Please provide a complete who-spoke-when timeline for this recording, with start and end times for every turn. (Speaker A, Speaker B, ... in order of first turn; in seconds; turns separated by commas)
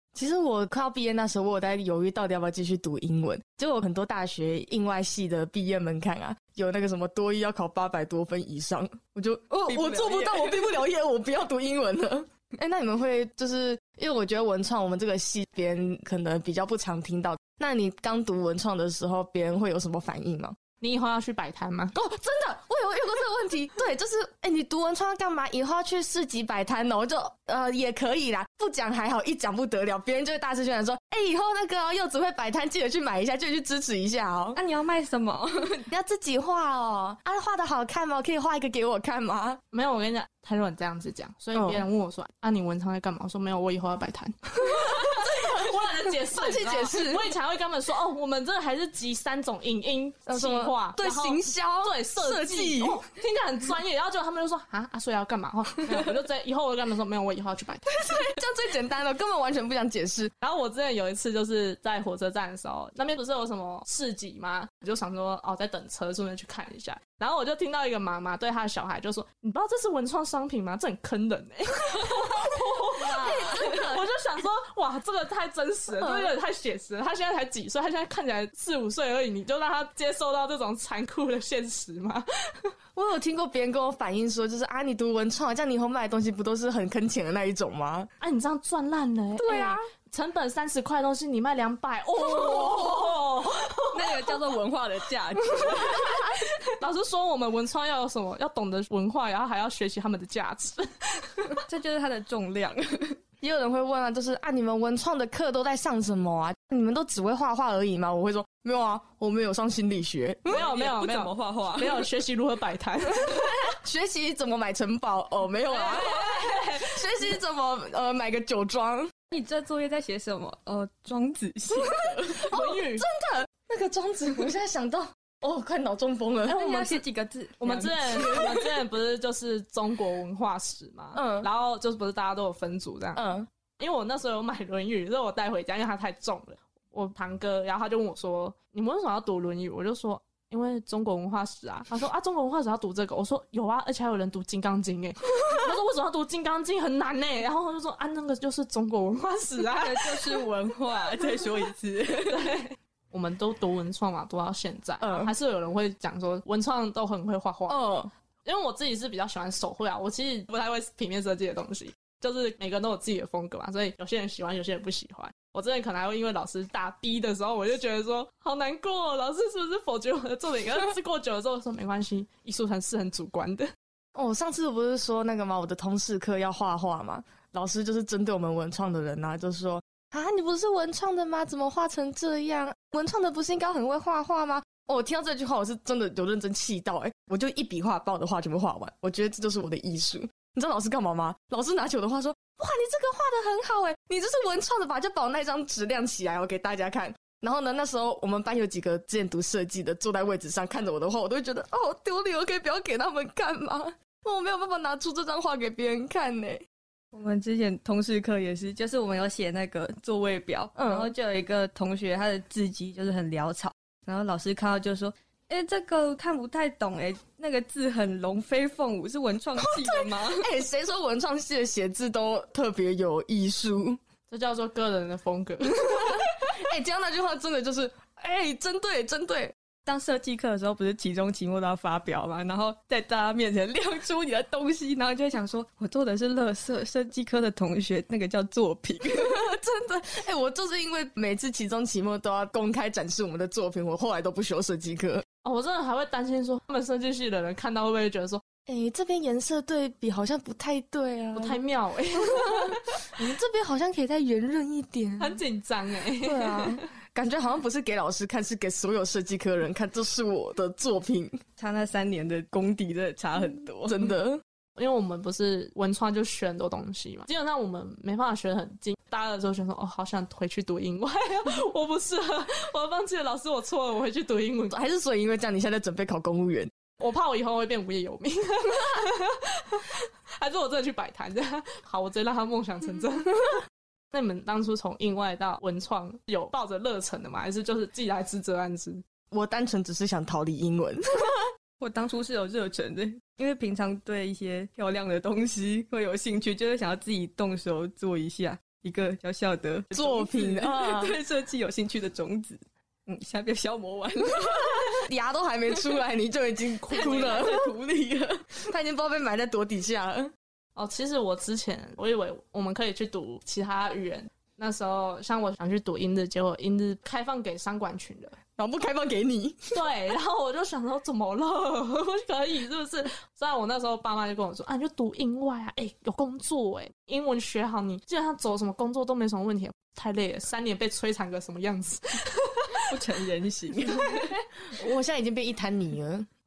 Speaker A: 0.1-20.5, Speaker B: 9.7-10.8, Speaker C: 20.8-22.0, Speaker A: 22.0-34.6, Speaker B: 34.5-35.9, Speaker A: 35.9-39.6, Speaker C: 39.7-58.4, Speaker A: 45.3-45.7, Speaker A: 46.2-47.2, Speaker A: 50.3-53.0, Speaker A: 57.9-60.3, Speaker C: 60.4-82.7, Speaker A: 73.2-74.0, Speaker A: 76.0-76.3, Speaker A: 82.9-88.1, Speaker C: 88.2-94.4, Speaker A: 89.4-89.8, Speaker B: 92.2-93.1, Speaker B: 93.9-96.3, Speaker C: 95.6-101.6, Speaker B: 101.7-103.2, Speaker A: 103.4-110.7, Speaker B: 110.5-112.1, Speaker C: 110.5-113.6, Speaker A: 113.6-119.2, Speaker C: 115.7-117.2, Speaker B: 119.3-122.6, Speaker A: 121.7-127.0, Speaker C: 122.4-123.1, Speaker C: 126.5-126.8, Speaker B: 126.5-128.8, Speaker C: 127.6-150.5, Speaker A: 128.1-128.5, Speaker A: 131.1-131.5, Speaker A: 133.2-133.5, Speaker B: 149.7-152.6, Speaker C: 152.2-157.9, Speaker A: 155.0-155.3, Speaker A: 157.7-158.1, Speaker C: 158.4-173.7, Speaker A: 174.1-206.6, Speaker B: 207.1-220.5, Speaker A: 210.7-211.1, Speaker A: 219.5-224.0, Speaker C: 224.3-226.4, Speaker A: 225.7-229.5, Speaker B: 229.8-239.5, Speaker A: 239.1-245.2, Speaker C: 245.4-248.4, Speaker A: 248.7-251.6, Speaker C: 251.3-253.1, Speaker A: 252.2-255.4, Speaker C: 255.2-256.9, Speaker A: 256.2-261.4, Speaker B: 261.5-264.1, Speaker A: 263.9-264.4, Speaker C: 264.8-274.8, Speaker A: 274.7-276.7, Speaker C: 277.0-289.0, Speaker A: 289.3-291.4, Speaker B: 291.8-305.1, Speaker A: 299.9-301.2, Speaker A: 305.1-307.6, Speaker B: 305.7-306.0, Speaker C: 306.8-307.7, Speaker B: 306.9-308.6, Speaker A: 308.7-310.3, Speaker C: 310.7-318.4, Speaker A: 318.6-319.8, Speaker C: 319.7-332.9, Speaker B: 332.9-334.3, Speaker C: 333.9-334.4, Speaker A: 334.8-336.3